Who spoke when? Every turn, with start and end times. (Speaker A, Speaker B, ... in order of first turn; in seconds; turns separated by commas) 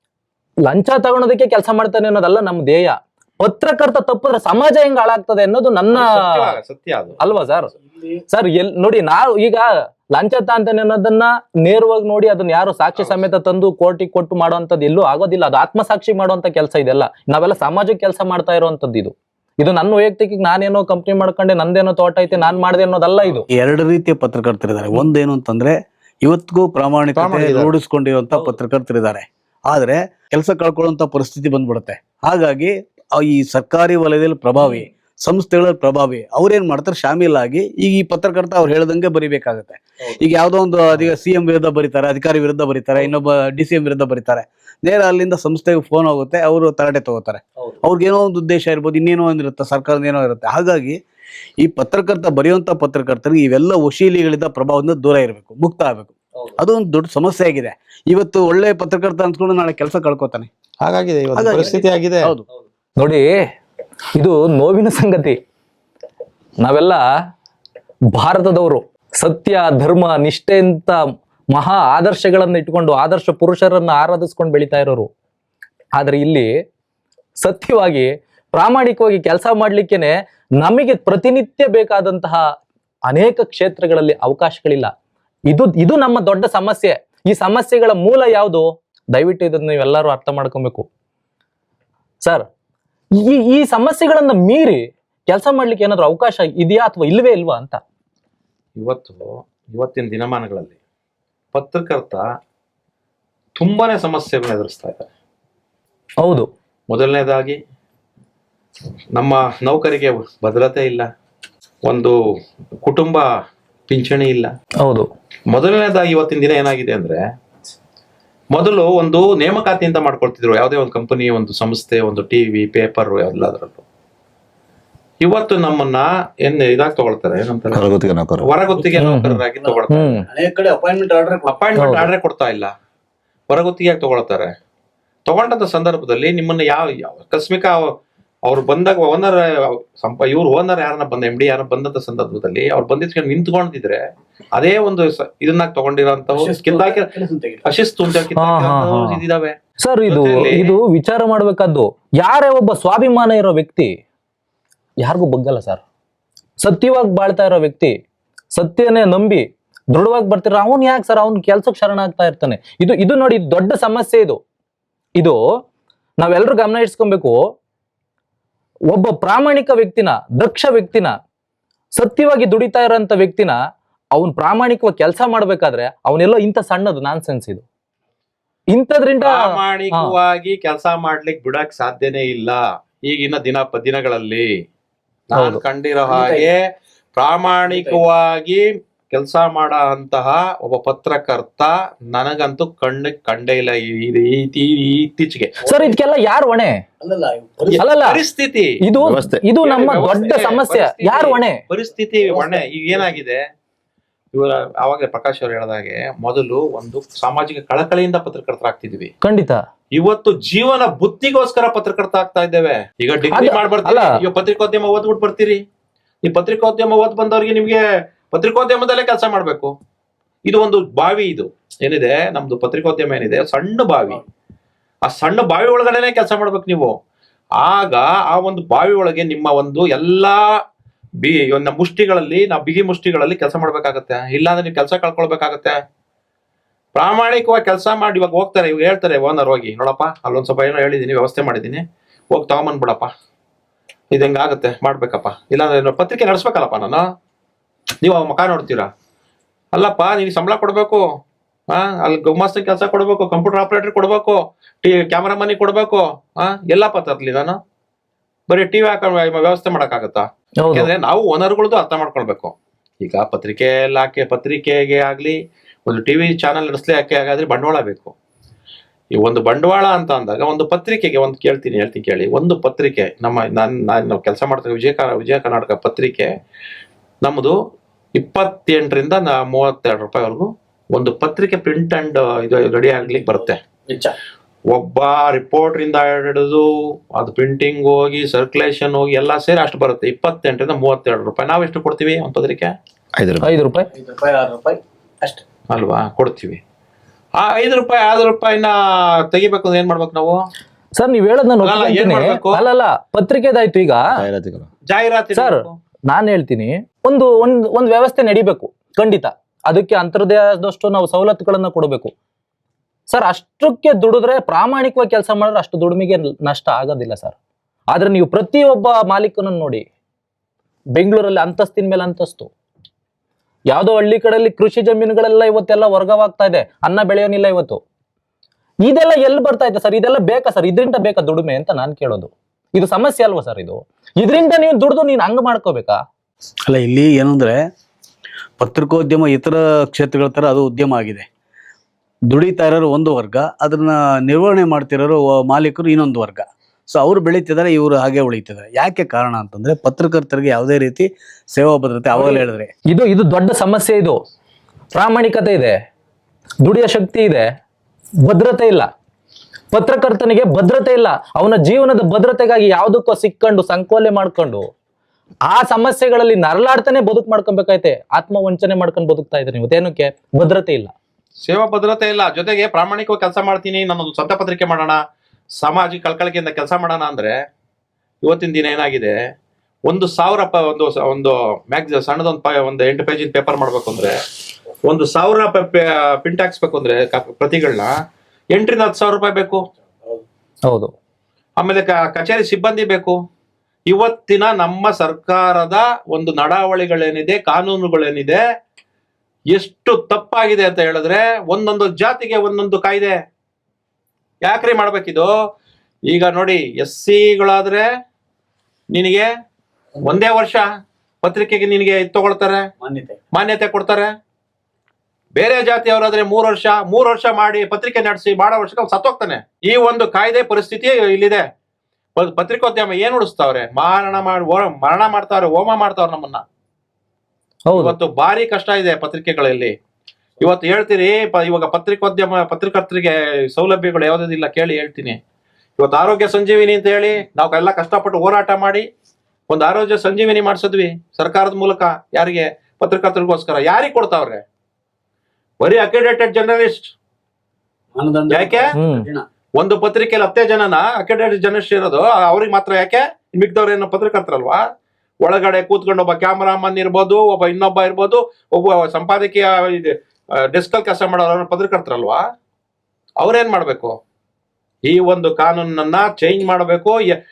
Speaker A: 0.7-6.2, Speaker B: 5.9-7.2, Speaker A: 7.2-7.7, Speaker C: 7.9-8.2, Speaker A: 8.3-23.5, Speaker C: 23.5-51.0, Speaker B: 27.1-27.7, Speaker C: 51.6-60.5, Speaker B: 60.8-62.3, Speaker C: 61.4-62.4, Speaker A: 63.0-63.4, Speaker A: 64.2-65.4, Speaker A: 66.6-67.0, Speaker A: 68.1-71.0, Speaker A: 71.5-75.1, Speaker A: 76.0-76.5, Speaker A: 77.4-82.4, Speaker A: 83.1-84.9, Speaker A: 85.5-90.9, Speaker A: 93.3-97.8, Speaker B: 98.8-100.8, Speaker B: 101.5-102.2, Speaker B: 103.6-105.1, Speaker A: 106.2-106.5, Speaker B: 106.9-107.6, Speaker B: 109.2-111.1, Speaker B: 111.8-112.2, Speaker B: 112.8-113.3, Speaker B: 113.9-114.5, Speaker B: 115.5-117.2, Speaker B: 118.5-123.8, Speaker B: 125.2-127.8, Speaker D: 127.7-128.5, Speaker B: 128.4-130.2, Speaker A: 129.0-130.3, Speaker C: 129.6-131.8, Speaker B: 131.5-132.7, Speaker A: 131.8-132.1, Speaker B: 133.5-134.5, Speaker B: 135.3-137.9, Speaker B: 138.4-144.0, Speaker B: 144.6-147.1, Speaker C: 146.3-147.7, Speaker B: 147.7-150.8, Speaker A: 148.4-149.2, Speaker A: 149.8-153.9, Speaker A: 155.0-155.8, Speaker A: 156.6-157.9, Speaker A: 158.5-164.4, Speaker A: 166.2-167.4, Speaker A: 168.9-171.1, Speaker A: 171.9-173.6, Speaker A: 174.2-177.6, Speaker A: 178.7-179.4, Speaker B: 179.2-184.5, Speaker B: 185.3-186.6, Speaker C: 186.1-186.5, Speaker B: 187.2-195.6, Speaker C: 187.7-188.0, Speaker C: 195.7-195.9, Speaker A: 195.7-196.8, Speaker C: 197.0-197.8, Speaker A: 197.8-198.2, Speaker B: 197.8-198.7, Speaker A: 198.8-201.6, Speaker D: 199.0-199.4, Speaker B: 199.6-203.4, Speaker C: 202.2-203.1, Speaker B: 204.3-209.1, Speaker A: 209.2-209.6, Speaker B: 210.0-215.6, Speaker A: 213.3-214.1, Speaker B: 216.2-219.7, Speaker B: 220.5-224.2, Speaker B: 225.1-227.0, Speaker B: 227.6-230.4, Speaker B: 231.2-235.8, Speaker B: 236.9-243.1, Speaker B: 244.1-247.1, Speaker B: 248.0-248.9, Speaker B: 249.7-251.1, Speaker B: 251.7-257.6, Speaker B: 258.5-268.1, Speaker A: 260.6-260.9, Speaker B: 269.2-276.3, Speaker B: 277.2-277.6, Speaker B: 278.2-283.6, Speaker C: 283.1-284.1, Speaker B: 284.7-292.7, Speaker D: 293.2-293.5, Speaker A: 293.4-293.9, Speaker C: 293.9-295.4, Speaker B: 295.7-296.6, Speaker B: 297.4-298.8, Speaker B: 299.3-300.4, Speaker A: 301.0-304.0, Speaker B: 301.6-302.6, Speaker D: 304.1-304.7, Speaker B: 304.9-305.8, Speaker A: 305.4-312.1, Speaker A: 313.1-317.4, Speaker A: 317.9-319.8, Speaker A: 320.9-322.5, Speaker A: 323.7-327.8, Speaker A: 328.8-336.0, Speaker C: 336.7-337.6, Speaker C: 338.6-341.3, Speaker C: 342.3-352.7, Speaker A: 352.1-354.2, Speaker A: 354.9-355.8, Speaker A: 356.6-357.5, Speaker A: 358.2-358.9, Speaker A: 359.7-364.6, Speaker A: 365.5-370.9, Speaker B: 371.4-375.0, Speaker B: 375.6-377.4, Speaker B: 378.2-379.2, Speaker B: 379.9-384.2, Speaker B: 384.9-387.9, Speaker B: 388.5-389.6, Speaker B: 391.6-393.2, Speaker B: 393.9-398.4, Speaker B: 399.5-403.2, Speaker B: 404.4-405.3, Speaker B: 406.1-407.8, Speaker B: 408.9-409.3, Speaker B: 410.0-410.6, Speaker B: 411.2-412.6, Speaker C: 412.8-413.2, Speaker B: 413.3-414.1, Speaker B: 415.4-421.4, Speaker B: 422.2-426.4, Speaker A: 427.7-427.9, Speaker B: 427.7-429.8, Speaker B: 430.4-435.2, Speaker B: 435.8-438.9, Speaker B: 439.5-444.4, Speaker B: 445.6-446.9, Speaker C: 447.9-449.3, Speaker B: 448.3-448.7, Speaker A: 448.7-449.1, Speaker B: 449.6-454.6, Speaker B: 455.2-459.9, Speaker B: 460.5-462.2, Speaker B: 463.2-463.9, Speaker B: 464.9-467.1